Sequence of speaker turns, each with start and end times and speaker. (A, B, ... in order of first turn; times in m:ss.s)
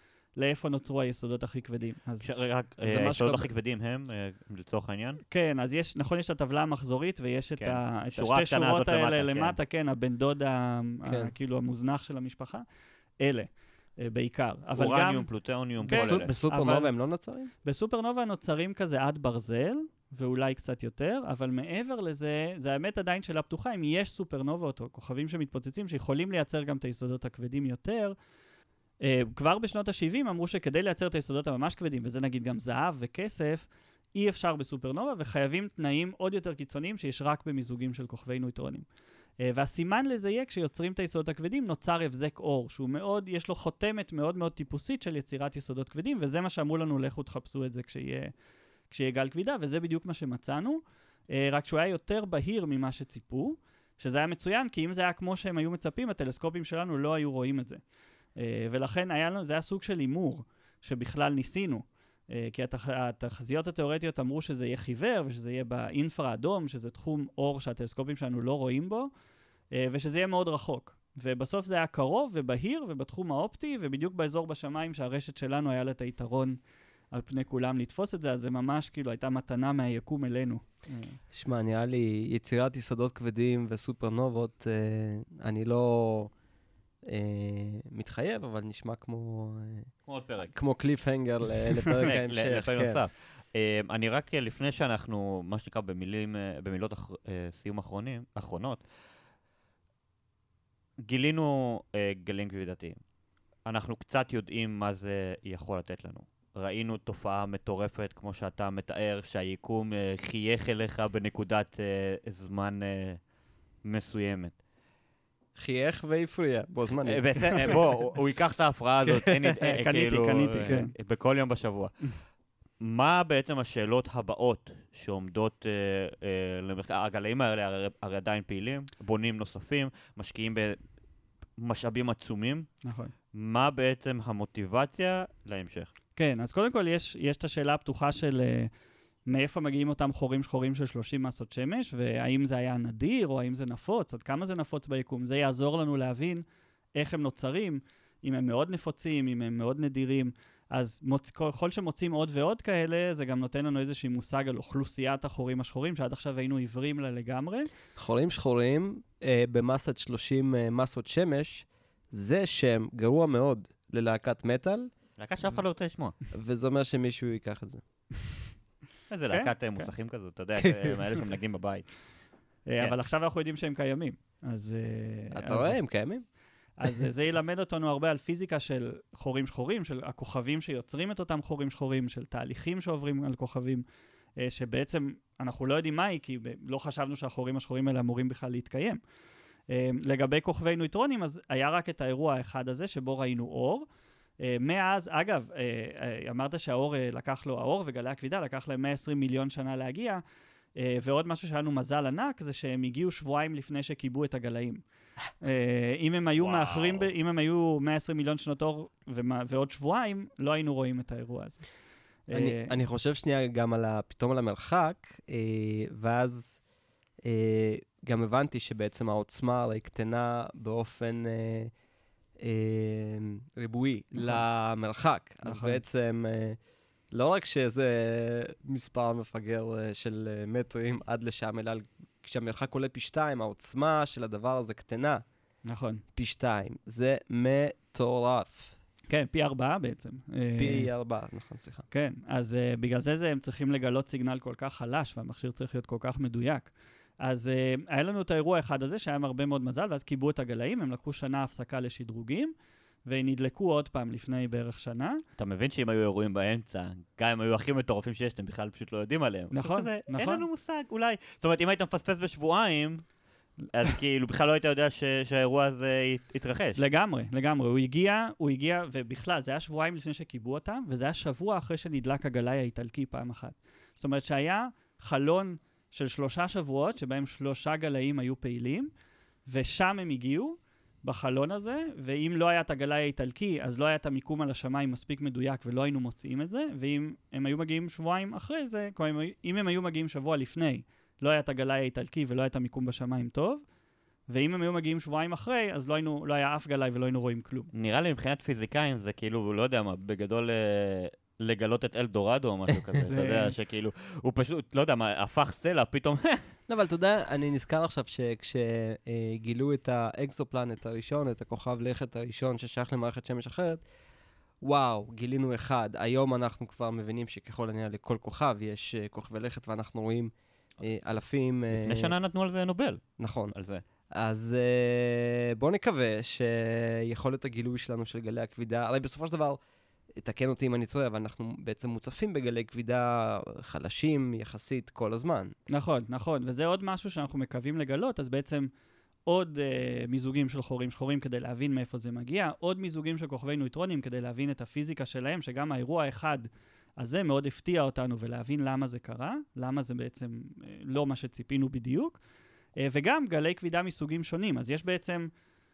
0:00.4-0:02.3 A
0:02.2-0:05.2 B
0:02.8-0:03.5 C
0:05.3-0:12.6 A
0:07.6-0:09.6 B
0:11.0-0:11.3 C
0:13.2-0:15.3 A
0:14.8-0:16.3 B
0:15.8-0:17.5 C
0:15.9-0:16.9 A
0:17.6-0:28.2 A
0:29.0-0:38.9 A
0:39.4-0:48.3 A
0:48.9-0:57.8 A
0:58.4-1:09.1 A
1:09.7-1:16.6 A
1:17.1-1:21.2 A
1:21.3-1:26.3 C
1:27.1-1:29.9 C
1:30.1-1:30.5 B
1:30.5-1:33.0 C
1:32.0-1:38.8 B
1:41.0-1:43.0 B
1:43.7-1:53.2 B
1:53.8-1:54.5 B
1:55.6-1:57.8 C
1:57.0-2:02.0 B
1:59.6-2:00.9 A
2:02.8-2:10.8 B
2:11.6-2:12.7 B
2:12.8-2:13.1 A
2:13.3-2:15.9 B
2:16.2-2:18.7 A
2:19.3-2:26.4 A
2:27.0-2:37.7 A
2:38.0-2:44.9 C
2:45.2-2:46.1 B
2:46.3-2:47.8 C
2:49.1-2:51.9 B
2:50.6-2:51.0 C
2:52.7-2:55.8 A
2:55.3-2:56.2 C
2:56.8-3:03.8 A
3:04.4-3:09.0 A
3:09.7-3:13.9 A
3:14.4-3:20.2 A
3:20.8-3:24.8 A
3:25.4-3:31.6 A
3:26.4-3:27.1 B
3:32.3-3:32.7 A
3:32.3-3:36.6 C
3:37.2-3:41.7 C
3:42.4-3:46.6 C
3:45.4-3:45.8 A
3:47.1-3:55.2 C
3:55.7-3:56.0 A
3:56.2-3:58.8 C
3:59.1-4:00.9 A
4:00.6-4:01.9 C
4:01.9-4:12.5 A
4:13.1-4:15.2 A
4:15.4-4:23.0 B
4:19.5-4:20.4 A
4:23.7-4:26.8 B
4:26.8-4:38.9 A
4:39.5-4:53.6 A
4:54.3-4:57.7 A
4:57.7-5:06.5 B
5:03.1-5:03.5 A
5:06.7-5:13.8 C
5:14.6-5:22.1 C
5:21.7-5:23.8 B
5:23.2-5:23.5 C
5:24.2-5:29.6 C
5:30.2-5:35.5 C
5:35.7-5:38.7 A
5:39.3-5:52.2 A
5:52.8-5:55.3 A